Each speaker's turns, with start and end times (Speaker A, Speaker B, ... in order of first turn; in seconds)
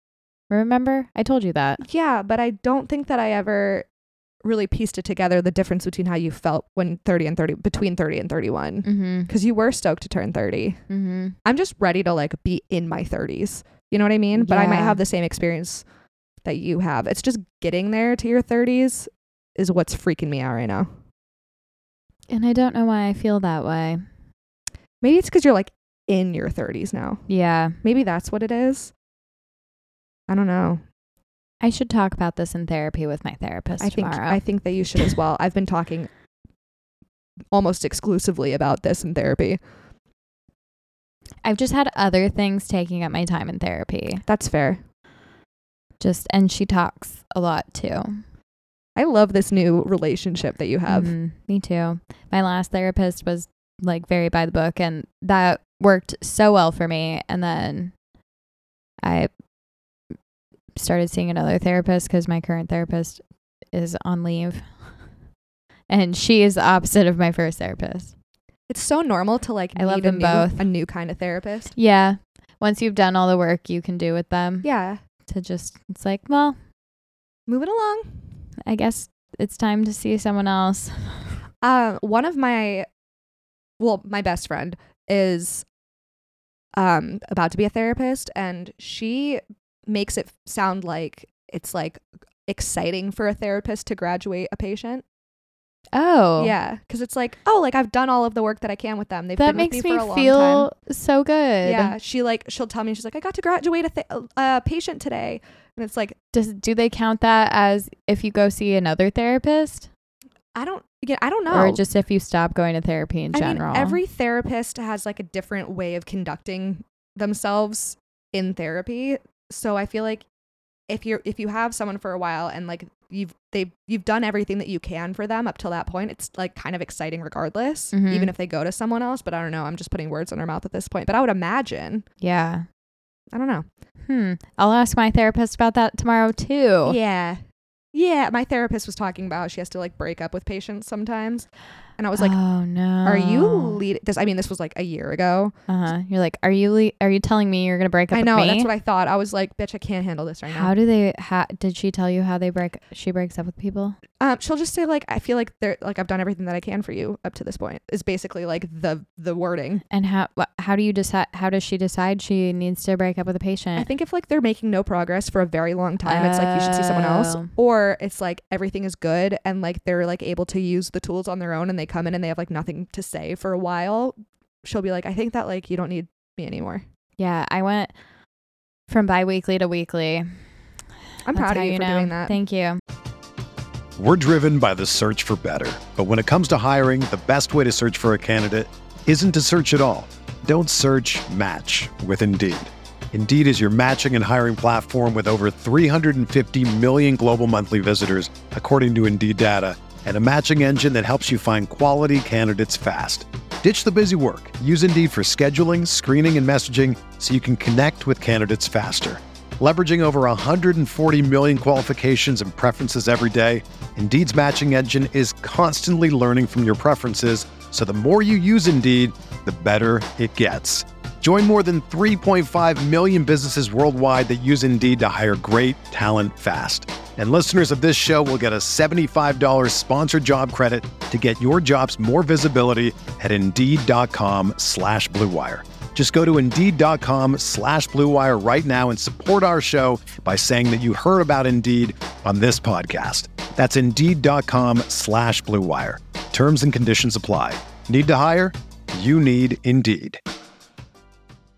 Speaker A: 0.5-1.8, 8.8-9.3, 10.9-11.4, 14.3-15.0, 22.3-24.0, 27.3-27.8, 31.6-34.4, 41.4-44.2, 46.0-48.2, 50.9-57.9, 59.0-59.3, 60.8-63.2, 63.7-64.8, 65.9-68.1, 69.8-70.6, 71.8-74.7, 75.3-76.6, 78.7-81.3, 95.9-96.5, 99.4-102.0, 106.3-109.9, 111.5-114.0, 127.9-128.3, 132.2-132.7, 134.1-137.0, 142.2-143.8, 145.7-148.7, 150.5-154.0, 159.9-163.9, 166.0-167.5, 177.2-177.9, 178.9-180.3, 181.3-182.8
Speaker B: 1.8-3.9, 4.4-10.8, 11.4-15.8, 16.4-20.9, 25.0-27.2, 27.8-28.9, 30.3-30.8, 33.8-36.1, 37.5-39.6, 44.3-44.8, 49.0-51.1, 68.7-71.7, 74.6-75.0, 77.5-78.2, 81.6-82.9, 83.8-85.7, 86.8-95.0, 96.4-100.7, 101.6-106.2, 110.5-111.8, 113.3-120.3, 120.9-132.1, 133.3-133.7, 136.8-137.4, 137.9-142.4, 143.1-145.6, 148.1-150.7, 154.2-159.8, 163.8-176.8, 181.2-182.3
Speaker C: 184.0-250.2